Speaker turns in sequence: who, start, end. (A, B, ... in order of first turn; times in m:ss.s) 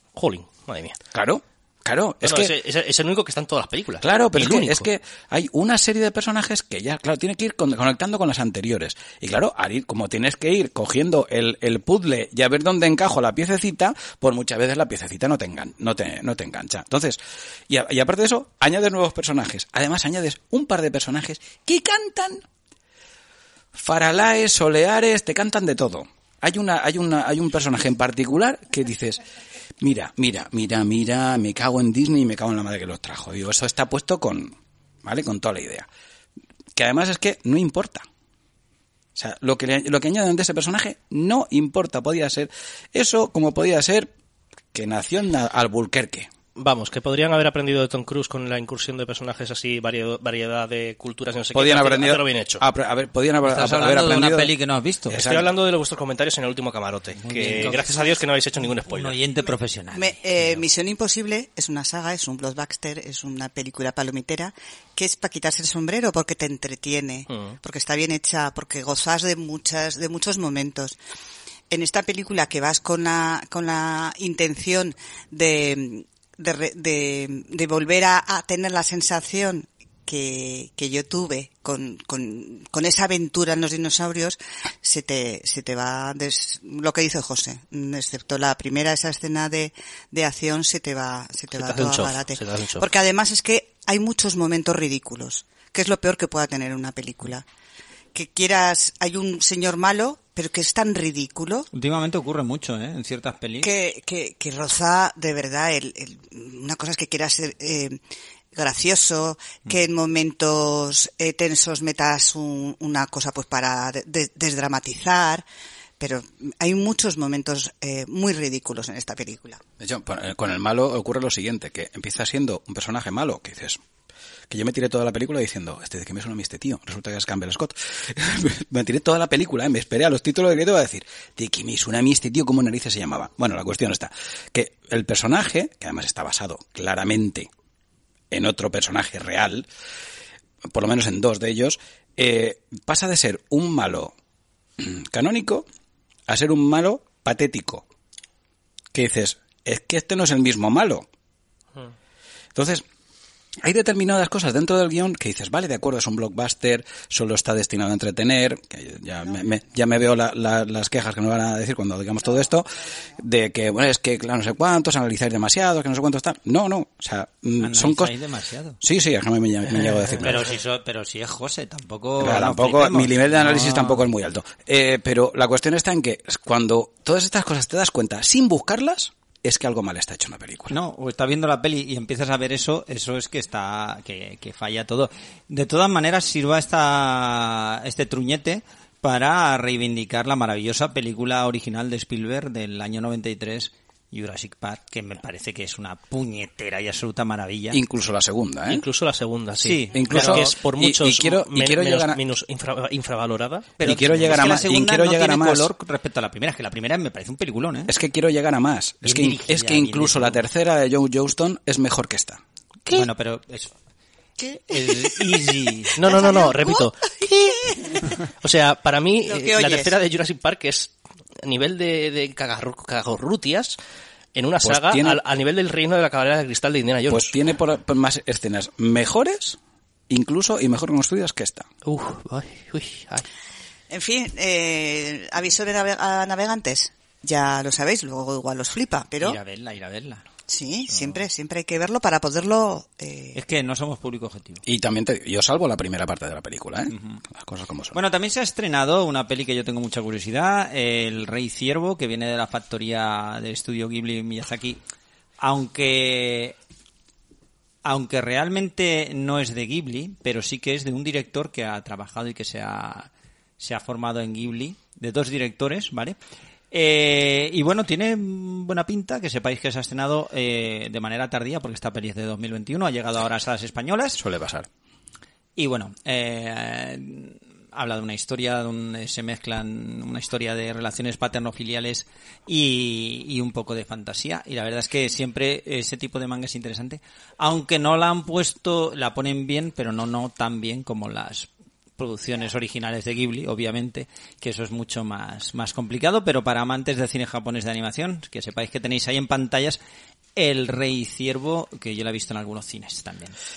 0:00.1-0:01.0 A
0:01.1-0:02.5 B
0:02.2-0:04.8 A
0:04.0-0:22.4 B
0:23.7-0:29.2 B
0:29.8-0:35.9 B
0:36.7-0:38.0 B
0:39.1-0:44.1 B
0:44.7-0:46.3 B
0:46.6-0:52.6 A
0:51.5-0:54.5 B
0:53.4-0:55.2 C
0:55.1-0:55.5 B
0:55.1-0:59.2 A
0:57.2-0:58.1 C
0:58.8-1:00.6 C
0:59.9-1:11.0 D
1:07.3-1:07.6 A
1:11.7-1:37.4 D
1:31.5-1:32.8 A
1:38.1-1:41.7 D
1:41.7-1:43.7 C
1:43.6-1:48.0 D
1:48.5-1:55.4 D
1:56.0-1:59.6 D
1:59.8-2:03.8 B
2:04.5-2:17.5 B
2:18.3-2:19.7 B
2:20.7-2:24.1 B
2:24.8-2:25.6 B
2:26.3-2:27.8 B
2:28.9-2:31.0 B
2:32.5-2:32.8 B
2:33.6-2:48.1 B
2:47.6-2:48.8 C
2:48.8-2:50.5 B
2:50.2-2:54.0 C
2:52.2-3:00.7 B
3:00.7-3:17.8 C
3:17.7-3:18.8 B
3:18.7-3:23.7 A
3:19.6-3:20.5 C
3:19.9-3:22.2 B
3:23.8-3:27.9 C
3:23.8-3:25.7 B
3:27.9-3:32.4 B
3:29.0-3:30.4 C
3:32.9-3:33.7 C
3:34.4-3:35.4 D
3:34.7-3:35.9 C
3:36.0-3:37.1 A
3:36.0-3:38.2 D
3:38.4-3:43.8 A
3:39.3-3:39.9 D
3:44.3-3:47.3 A
3:44.6-3:45.2 B
3:47.1-3:49.6 B
3:50.1-3:51.7 B
3:51.8-3:53.2 A
3:53.9-3:59.4 D
3:59.2-4:00.2 C
4:00.5-4:03.4 D
4:03.3-4:04.6 C
4:04.6-4:08.0 B
4:06.9-4:07.2 C
4:07.9-4:14.8 C
4:15.4-4:16.6 C
4:17.8-4:26.2 C
4:26.7-4:34.2 C
4:34.2-4:34.7 B
4:35.6-4:59.8 C
5:00.4-5:03.4 C